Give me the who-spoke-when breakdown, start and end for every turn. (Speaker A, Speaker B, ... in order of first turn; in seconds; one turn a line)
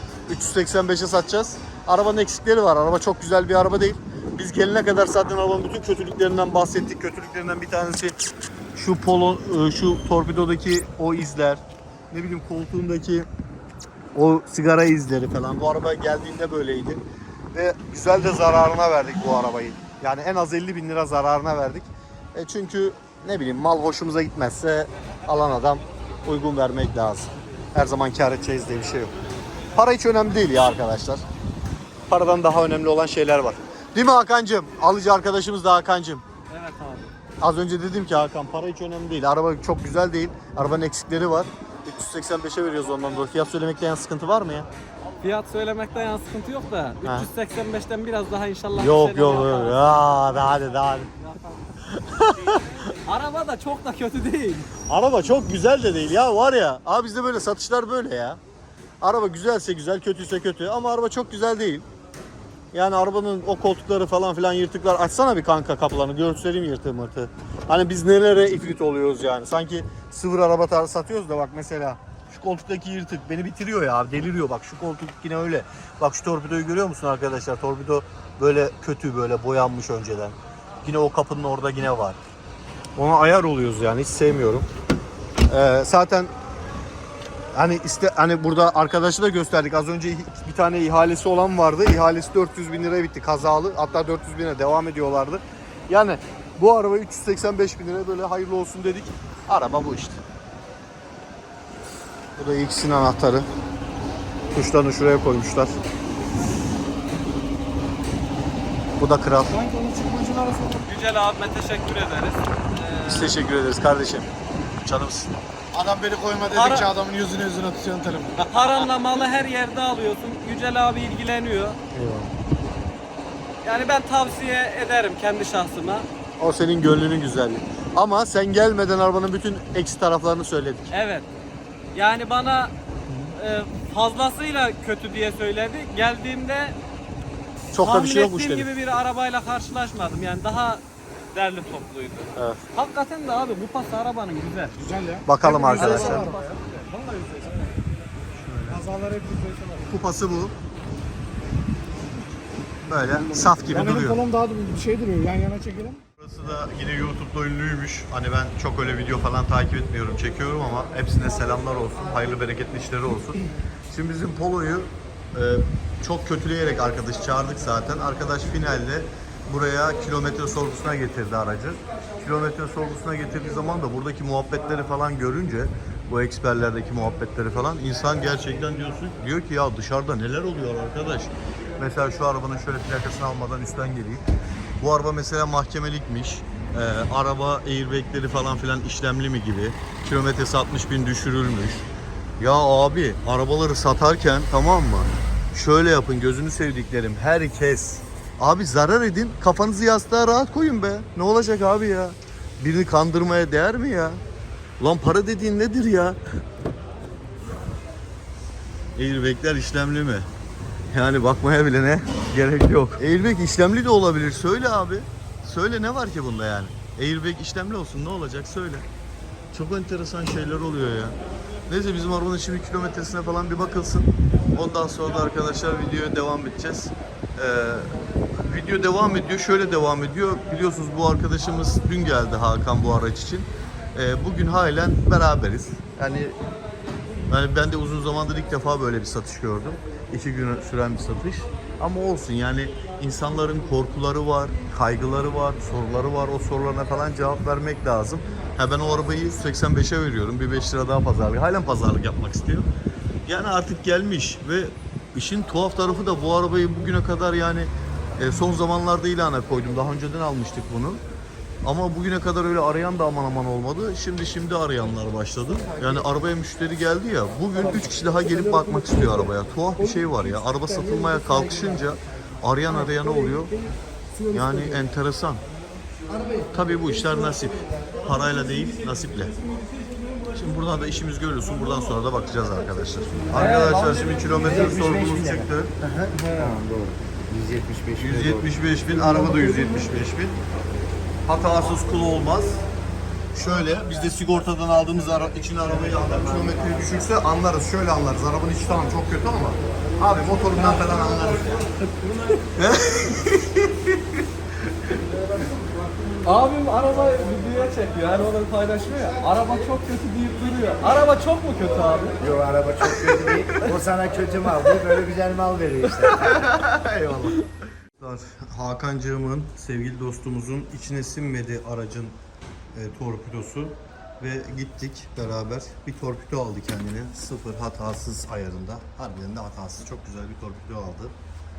Speaker A: 0.3-8.2
Speaker A: 8.8-13.3
Speaker A: 14.1-17.0
Speaker A: 17.5-29.1
Speaker A: 29.7-31.2
Speaker A: 32.1-36.2
Speaker B: 36.5-37.1
Speaker A: 37.4-44.7
Speaker B: 45.2-50.0
Speaker A: 48.8-51.1
Speaker B: 51.2-51.5
Speaker A: 51.9-52.6
Speaker B: 52.2-54.7
Speaker A: 54.9-58.4
Speaker A: 59.0-61.9
Speaker A: 62.7-82.2
Speaker A: 83.0-84.7
Speaker A: 85.5-86.3
Speaker A: 87.5-100.2
Speaker A: 102.3-103.5
Speaker A: 104.5-105.8
Speaker A: 109.0-109.5
Speaker C: 109.5-110.9
Speaker B: 110.9-113.4
Speaker A: 113.0-115.4
Speaker C: 115.7-118.6
Speaker B: 116.5-116.8
Speaker B: 118.4-121.8
Speaker A: 121.9-122.3
Speaker B: 123.6-126.0
Speaker A: 126.4-130.9
Speaker B: 130.9-131.2
Speaker B: 131.9-132.7
Speaker A: 133.1-133.3
Speaker B: 133.3-136.8
Speaker A: 137.7-138.7
Speaker B: 137.8-144.7
Speaker A: 142.3-142.6
Speaker C: 144.7-147.6
Speaker A: 145.2-146.3
Speaker B: 145.7-146.9
Speaker A: 148.3-148.8
Speaker C: 148.7-149.9
Speaker A: 149.9-150.5
Speaker A: 152.9-154.2
Speaker C: 153.3-156.0
Speaker A: 156.2-163.4
Speaker A: 163.9-184.2
Speaker A: 184.8-191.8
Speaker A: 192.4-204.2
Speaker A: 204.8-206.2
Speaker A: 208.9-210.3
Speaker A: 210.9-218.8
Speaker A: 219.5-221.2
Speaker A: 221.7-236.3
Speaker A: 237.3-252.7
Speaker A: 253.2-261.0
Speaker A: 261.6-273.6
Speaker A: 274.3-275.4
Speaker D: 276.1-276.5
Speaker A: 276.5-279.3
Speaker A: 280.3-285.7
Speaker D: 283.3-288.5
Speaker B: 283.7-284.5
Speaker A: 288.0-290.4
Speaker A: 291.2-292.6
Speaker A: 293.3-301.7
Speaker B: 301.8-302.4
Speaker A: 302.5-304.0
Speaker B: 306.2-312.2
Speaker D: 312.2-316.4
Speaker A: 316.1-317.4
Speaker A: 318.0-322.2
Speaker A: 322.7-331.1